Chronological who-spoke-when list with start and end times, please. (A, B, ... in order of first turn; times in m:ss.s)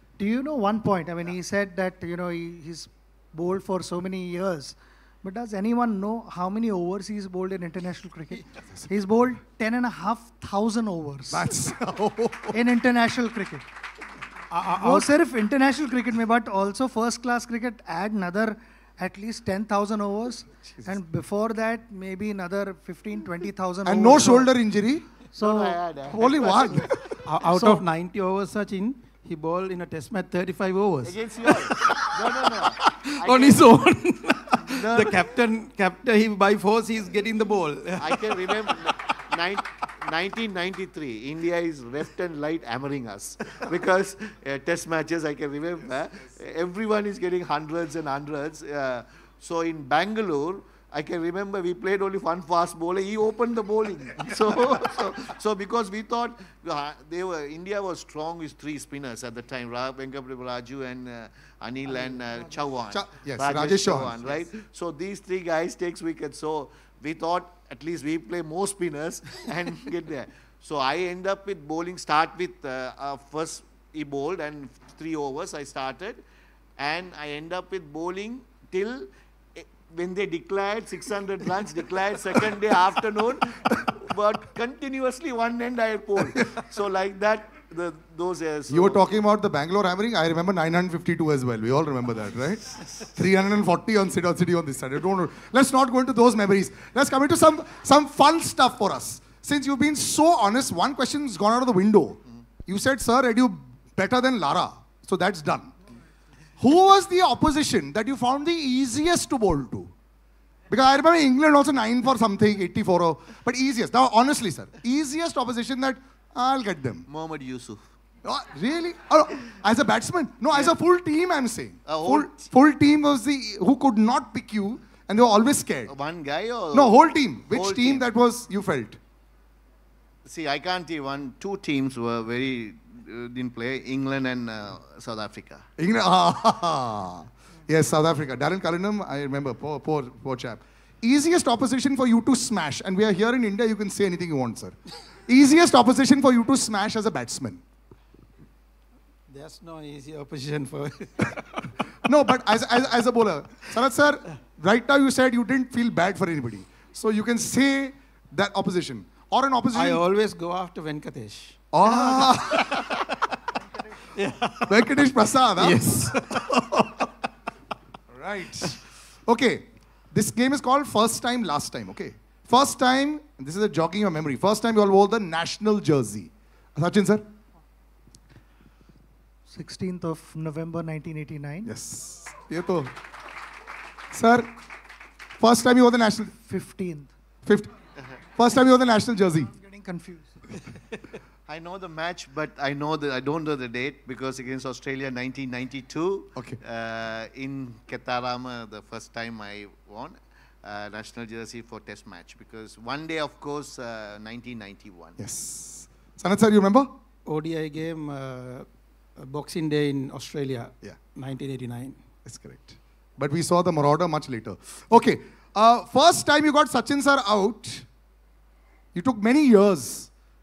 0:00.2-0:11.5 A
0:11.3-0:12.6 B
0:12.5-0:13.6 A
0:14.5-0:15.1 C
0:14.7-0:24.5 A
0:23.8-0:25.0 B
0:25.3-0:26.8 A
0:25.3-0:27.1 D
0:26.2-0:26.9 B
0:27.0-0:38.9 C
0:27.5-0:27.8 A
0:31.0-0:33.7 D
0:34.6-0:35.2 D
0:38.0-1:16.2 D
1:02.9-1:04.2 B
1:16.8-1:29.1 D
1:28.7-1:45.7 B
1:46.6-1:49.9 B
1:50.7-1:57.0 B
1:57.1-1:57.9 D
1:58.2-2:05.9 B
2:01.8-2:02.5 D
2:05.9-2:07.0 D
2:06.7-2:09.0 B
2:07.5-2:08.1 D
2:10.2-2:15.6 D
2:15.8-2:27.6 B
2:29.3-2:31.8 C
2:32.0-2:40.0 B
2:39.7-2:42.9 C
2:41.7-2:42.8 B
2:44.1-2:44.9 C
2:44.7-2:45.9 B
2:45.6-2:47.1 C
2:48.1-2:57.2 B
2:59.5-3:01.7 A
3:01.6-3:02.9 B
3:04.1-3:04.5 B
3:05.4-3:06.3 B
3:06.4-3:07.1 A
3:07.4-3:07.7 B
3:08.3-3:09.5 B
3:09.5-3:10.4 A
3:11.5-3:25.2 D
3:25.2-3:26.9 B
3:27.2-3:32.0 C
3:32.2-3:37.8 B
3:38.9-3:40.1 B